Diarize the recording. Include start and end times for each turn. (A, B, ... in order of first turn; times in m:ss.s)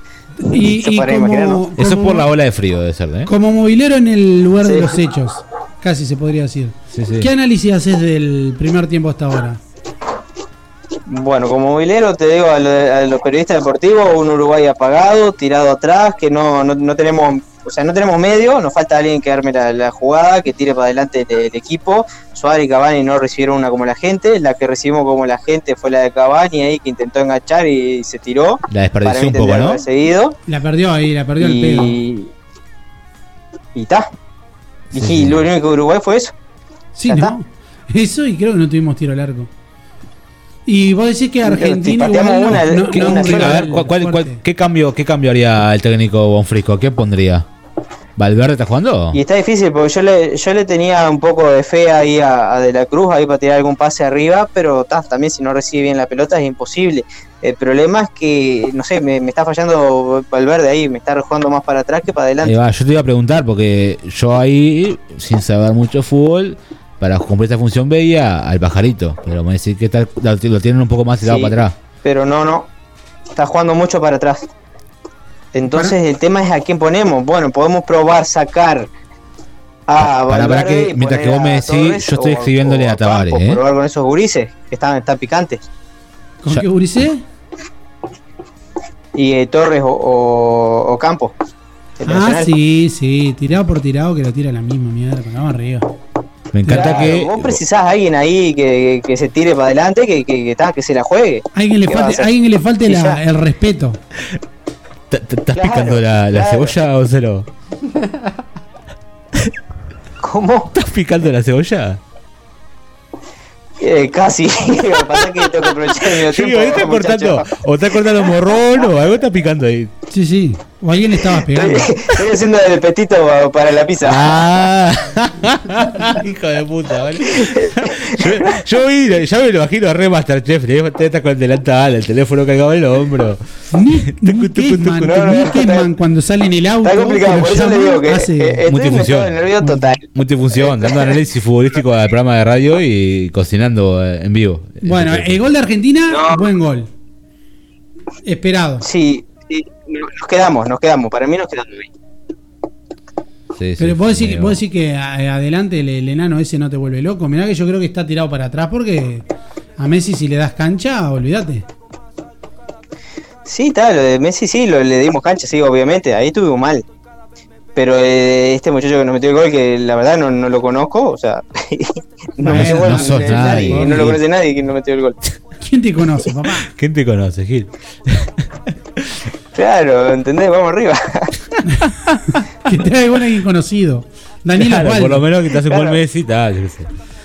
0:00.4-0:02.3 A
0:00.6-0:01.6 B
0:01.8-0:03.3 C
0:03.3-0:09.6 A
0:04.6-0:05.0 B
0:06.9-0:07.3 C
0:11.1-0:30.4 B
0:28.7-0:29.8 C
0:30.5-0:32.0 A
0:31.4-0:32.3 B
0:33.8-0:34.1 B
0:34.9-0:36.3 B
0:34.9-0:35.5 C
0:37.0-0:39.5 A
0:37.0-0:37.3 B
0:40.7-0:44.4 A
0:41.4-0:43.8 B
0:42.9-0:47.5 C
0:48.2-0:49.2 C
0:49.1-1:02.6 B
1:02.4-1:11.8 C
1:11.2-1:12.7 B
1:13.3-1:14.5 B
1:15.5-1:18.9 B
1:15.7-1:16.0 A
1:19.9-1:25.6 B
1:20.0-1:23.6 C
1:26.4-1:27.2 A
1:29.2-1:31.4 B
1:32.0-1:32.5 B
1:32.0-1:35.9 A
1:36.5-1:37.6 C
1:36.7-1:37.0 A
1:36.7-1:42.3 B
1:41.5-1:44.0 A
1:42.8-1:43.2 B
1:45.1-1:47.5 C
1:45.5-1:46.8 B
1:50.2-1:50.7 B
1:50.7-1:52.0 C
1:53.8-1:57.5 B
1:55.9-1:59.9 C
2:00.1-2:02.0 A
2:01.5-2:04.5 B
2:04.0-2:15.4 C
2:07.3-2:08.5 B
2:13.7-2:18.6 A
2:15.0-2:15.9 B
2:16.8-2:21.2 B
2:18.7-2:19.4 C
2:19.6-2:20.0 A
2:20.1-2:25.4 C
2:24.8-2:26.9 A
2:26.1-2:26.5 B
2:28.2-2:28.9 A
2:28.8-2:31.9 B
2:33.5-2:34.6 C
2:33.8-2:39.3 A
2:39.8-2:41.7 A
2:43.4-2:46.8 B
2:47.8-2:55.2 B
2:52.4-2:54.2 A
2:52.5-2:54.2 C
2:55.6-2:56.7 A
2:56.6-2:59.3 C
2:59.6-3:01.3 B
3:01.6-3:05.3 A
3:01.9-3:02.2 C
3:04.6-3:06.9 C
3:05.6-3:06.0 B